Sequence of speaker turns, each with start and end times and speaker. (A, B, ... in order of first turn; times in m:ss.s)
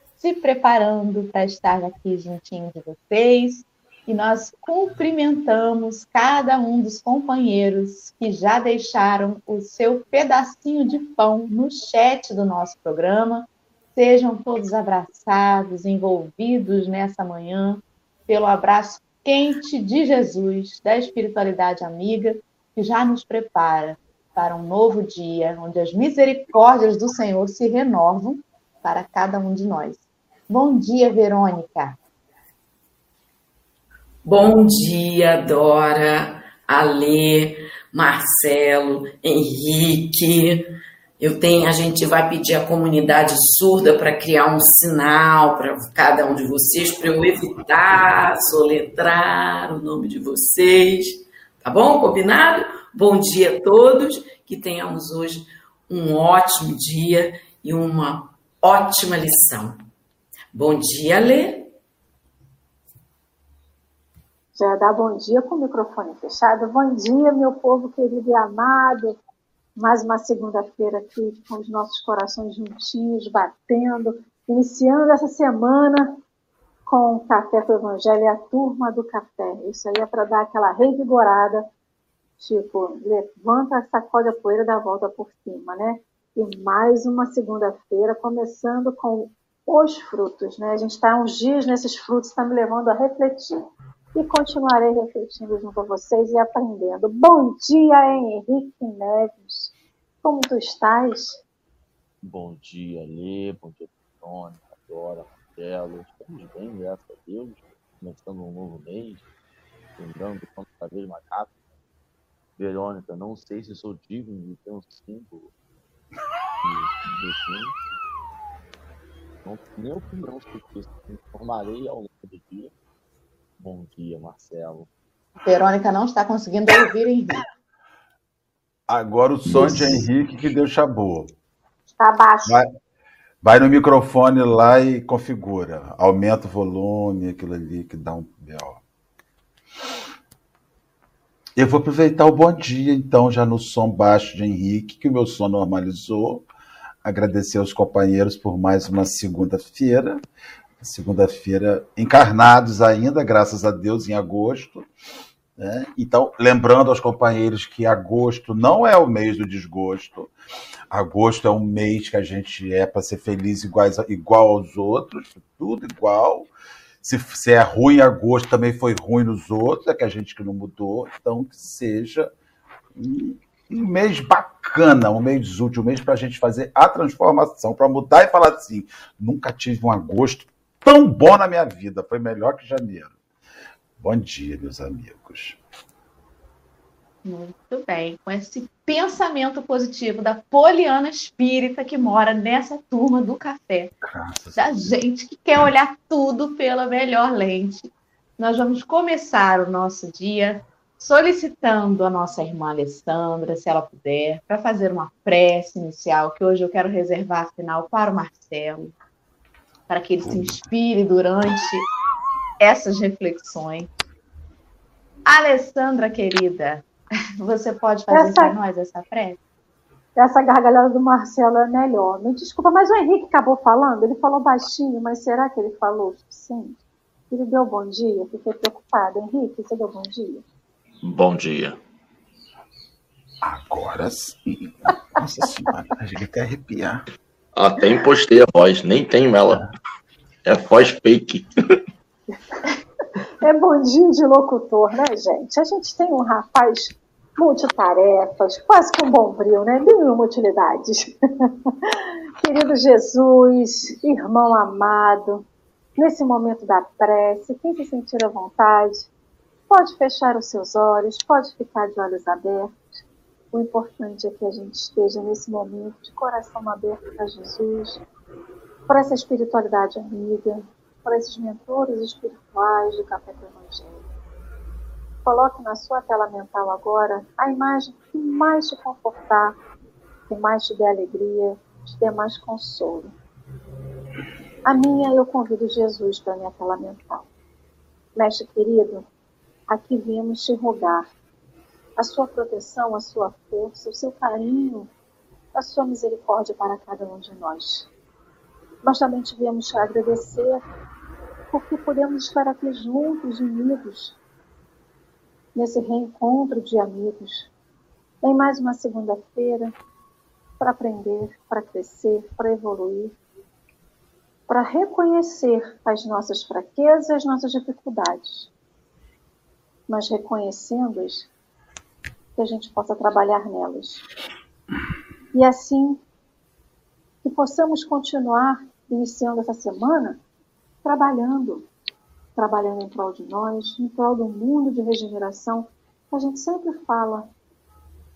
0:00.2-0:32.0 A
0:34.2-0:40.7 B
0:41.2-0:59.8 B
1:00.5-1:01.7 B
1:04.5-1:09.2 C
1:09.8-1:16.2 C
1:16.8-1:21.7 C
1:22.4-1:41.4 C
1:42.2-1:49.2 D
1:50.0-1:51.6 D
1:52.6-1:55.5 D
1:56.6-1:57.7 D
1:59.4-2:02.7 D
2:03.6-2:04.9 D
2:05.4-2:07.4 A
2:08.9-2:11.3 E
2:12.0-2:12.6 C
2:13.4-2:18.8 E
2:21.6-2:26.5 E
2:27.0-2:30.2 E
2:30.8-2:34.9 E
2:35.6-2:40.3 E
2:40.9-2:46.5 E
2:47.0-2:52.3 E
2:53.0-3:03.1 E
3:04.0-3:05.6 E
3:07.2-3:13.9 A
3:14.0-3:14.7 E
3:14.6-3:28.9 A
3:29.9-3:31.9 A
3:30.3-3:30.5 E
3:32.6-3:33.9 A
3:35.3-3:36.8 A
3:37.4-3:39.4 A
3:38.1-3:38.5 C
3:40.2-3:46.8 C
3:47.3-3:50.4 C
3:51.0-3:51.8 D
3:53.4-3:57.0 E
3:57.6-3:59.7 D
4:00.5-4:01.5 D
4:03.4-4:15.4 C
4:16.0-4:19.1 C
4:19.7-4:22.9 C
4:23.5-4:28.0 C
4:28.9-4:34.1 C
4:35.2-4:39.6 C
4:40.3-4:43.1 C
4:44.6-4:47.3 C
4:48.2-4:49.1 C
4:49.7-4:51.1 C
4:52.0-4:54.9 C
4:55.5-4:57.9 C
4:58.8-5:00.6 C
5:01.5-5:04.2 C
5:05.5-5:07.5 C
5:08.2-5:09.7 C
5:10.6-5:13.2 C
5:14.5-5:18.5 C
5:19.9-5:21.3 C
5:22.4-5:24.1 C
5:25.3-5:26.0 C
5:27.2-5:30.2 C
5:30.8-5:31.7 C
5:32.4-5:37.3 C